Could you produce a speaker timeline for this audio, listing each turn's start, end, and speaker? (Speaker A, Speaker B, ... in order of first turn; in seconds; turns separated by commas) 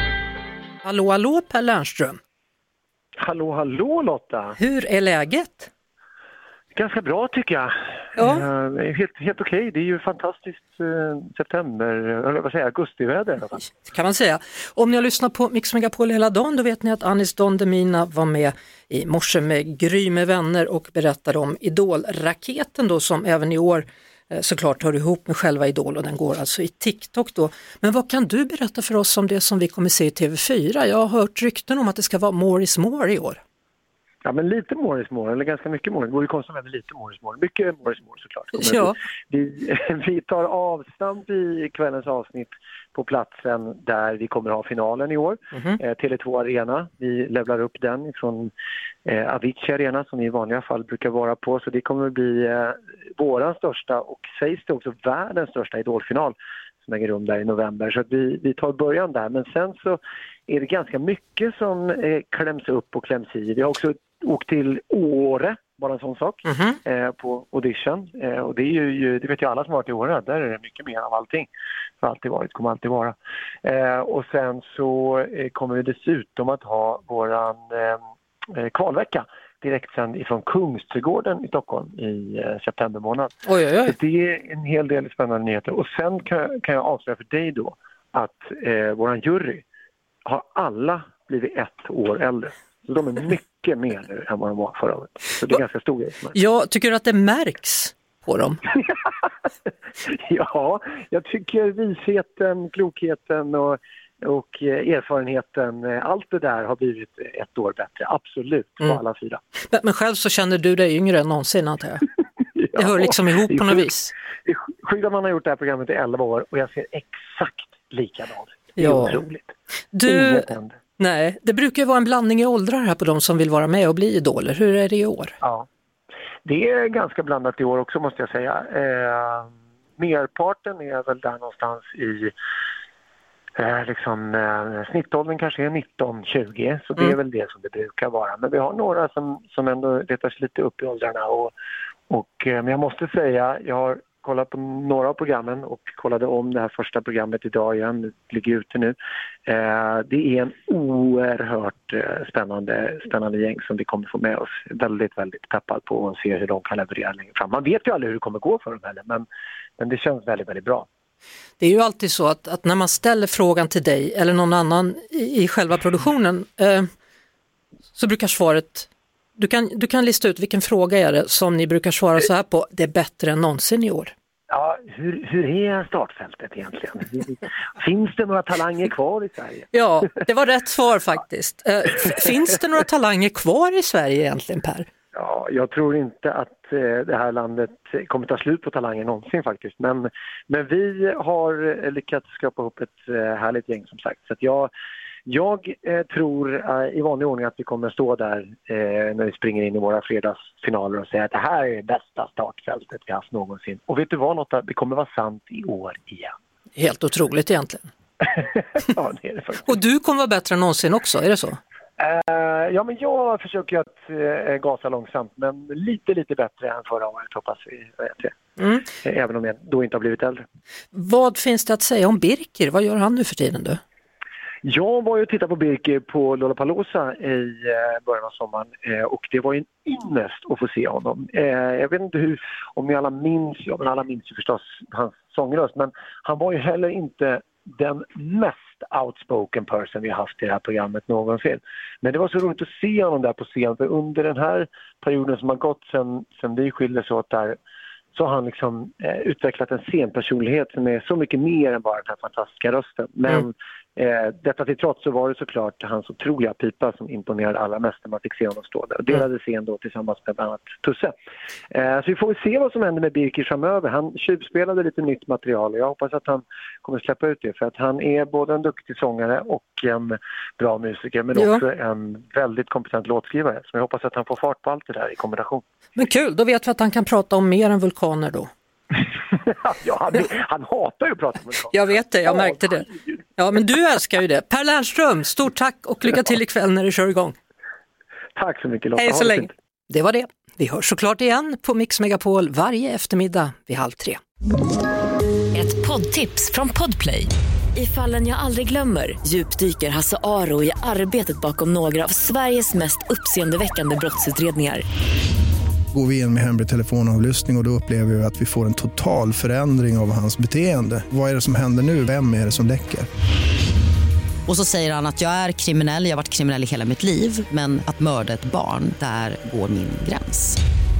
Speaker A: 0.8-2.2, Speaker B: 3.2-4.6, Speaker A: 4.6-5.7, Speaker B: 6.7-13.6, Speaker A: 8.2-8.5, Speaker A: 13.8-33.4, Speaker B: 34.2-48.5, Speaker A: 38.5-39.0, Speaker B: 49.0-71.5, Speaker A: 66.5-66.8, Speaker B: 72.0-78.0, Speaker B: 78.5-89.6, Speaker A: 83.5-84.0, Speaker B: 90.2-96.3, Speaker A: 96.3-98.6, Speaker B: 100.0-109.4, Speaker A: 109.7-112.1, Speaker B: 112.5-113.9, Speaker A: 112.7-114.1, Speaker B: 114.4-120.8, Speaker A: 118.8-119.2, Speaker A: 119.9-125.3, Speaker B: 125.4-125.7, Speaker B: 126.4-132.3, Speaker B: 133.6-141.5, Speaker B: 142.1-159.2, Speaker B: 159.8-160.9, Speaker A: 161.6-166.9, Speaker A: 167.9-174.1, Speaker B: 174.5-179.7, Speaker A: 179.7-184.8, Speaker B: 185.1-194.7, Speaker B: 195.2-206.3, Speaker A: 206.8-207.9, Speaker B: 208.2-209.7, Speaker A: 209.7-211.6, Speaker B: 212.0-218.3, Speaker B: 218.9-220.4, Speaker A: 220.9-223.8, Speaker B: 224.6-247.6, Speaker B: 248.1-261.1, Speaker B: 261.7-275.6, Speaker A: 271.3-271.6, Speaker A: 275.9-278.5, Speaker B: 279.3-283.1, Speaker A: 281.7-287.4, Speaker B: 288.3-289.5, Speaker A: 289.0-294.2, Speaker C: 295.5-304.8, Speaker D: 305.9-313.1, Speaker E: 314.5-320.6